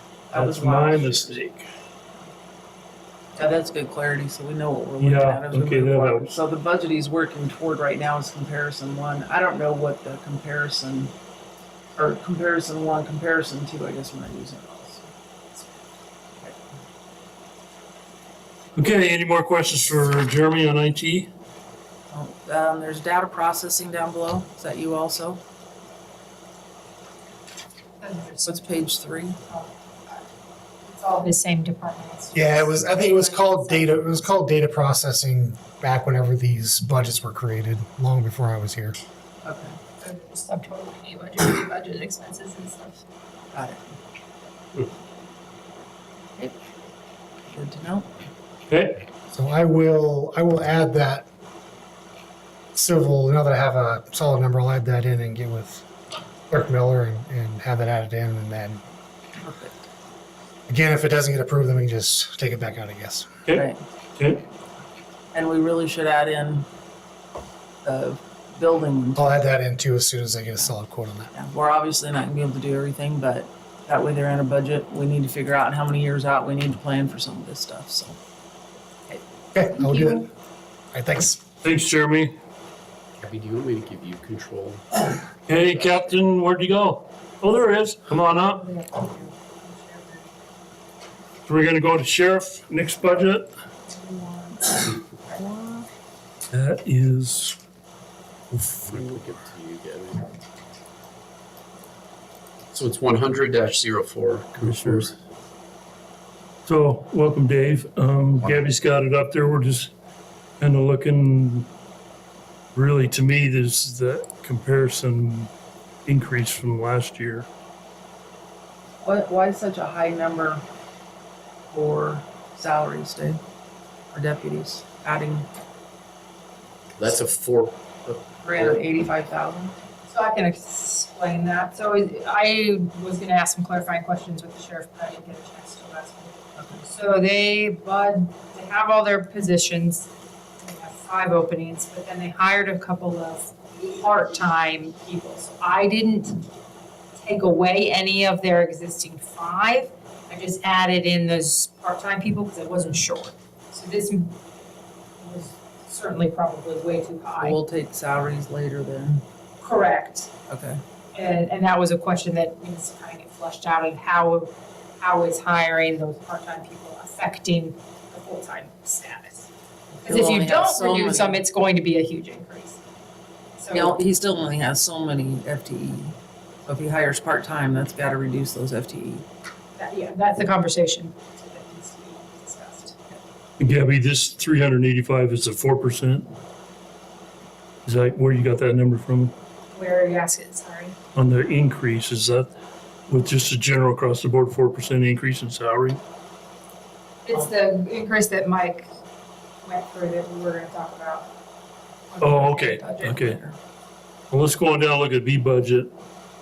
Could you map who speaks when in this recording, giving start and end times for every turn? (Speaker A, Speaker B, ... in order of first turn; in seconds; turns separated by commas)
Speaker A: 0.3-1.4, Speaker B: 0.3-1.7, Speaker A: 3.4-11.1, Speaker B: 5.0-6.3, Speaker A: 11.9-15.0, Speaker B: 18.8-21.3, Speaker A: 22.1-25.4, Speaker C: 28.0-28.6, Speaker A: 28.4-29.4, Speaker C: 30.9-34.0, Speaker D: 32.3-39.0, Speaker A: 39.4-39.8, Speaker C: 40.0-43.0, Speaker A: 43.5-44.0, Speaker A: 47.5-48.1, Speaker B: 48.7-49.0, Speaker D: 49.3-51.2, Speaker D: 52.7-55.8, Speaker D: 56.5-58.8, Speaker A: 59.4-59.8, Speaker D: 60.7-63.3, Speaker A: 63.5-63.8, Speaker A: 65.3-66.7, Speaker A: 67.8-69.5, Speaker D: 69.2-71.3, Speaker A: 71.3-78.2, Speaker D: 79.5-80.3, Speaker D: 80.9-81.4, Speaker B: 81.6-82.3, Speaker E: 83.2-85.0, Speaker B: 85.5-88.6, Speaker C: 88.5-90.3, Speaker B: 91.5-93.5, Speaker C: 93.9-94.8, Speaker A: 95.4-95.8, Speaker B: 96.5-97.6, Speaker B: 98.5-99.0, Speaker E: 98.8-100.3, Speaker E: 102.7-105.1, Speaker B: 104.6-105.1, Speaker B: 106.7-109.9, Speaker B: 110.6-111.7, Speaker B: 112.7-115.5, Speaker B: 116.0-117.5, Speaker A: 119.0-120.6, Speaker A: 121.7-123.4, Speaker A: 124.1-125.5, Speaker E: 127.0-128.8, Speaker A: 128.4-129.8, Speaker C: 130.1-140.1, Speaker A: 136.6-136.8, Speaker C: 140.6-146.4, Speaker C: 147.2-154.3, Speaker C: 155.2-157.6, Speaker A: 157.4-159.2, Speaker C: 159.6-160.3, Speaker A: 160.5-160.8, Speaker C: 161.1-169.5, Speaker A: 170.0-171.4, Speaker C: 170.1-172.8, Speaker C: 173.6-173.9, Speaker A: 173.7-176.2, Speaker A: 176.7-179.3, Speaker C: 179.8-183.0, Speaker B: 183.6-186.3, Speaker B: 187.8-189.3, Speaker C: 189.7-190.9, Speaker B: 191.1-192.5, Speaker B: 193.1-196.0, Speaker C: 197.2-198.9, Speaker C: 199.6-201.3, Speaker C: 202.1-203.2, Speaker B: 202.2-203.4, Speaker A: 203.0-203.6, Speaker B: 204.3-205.9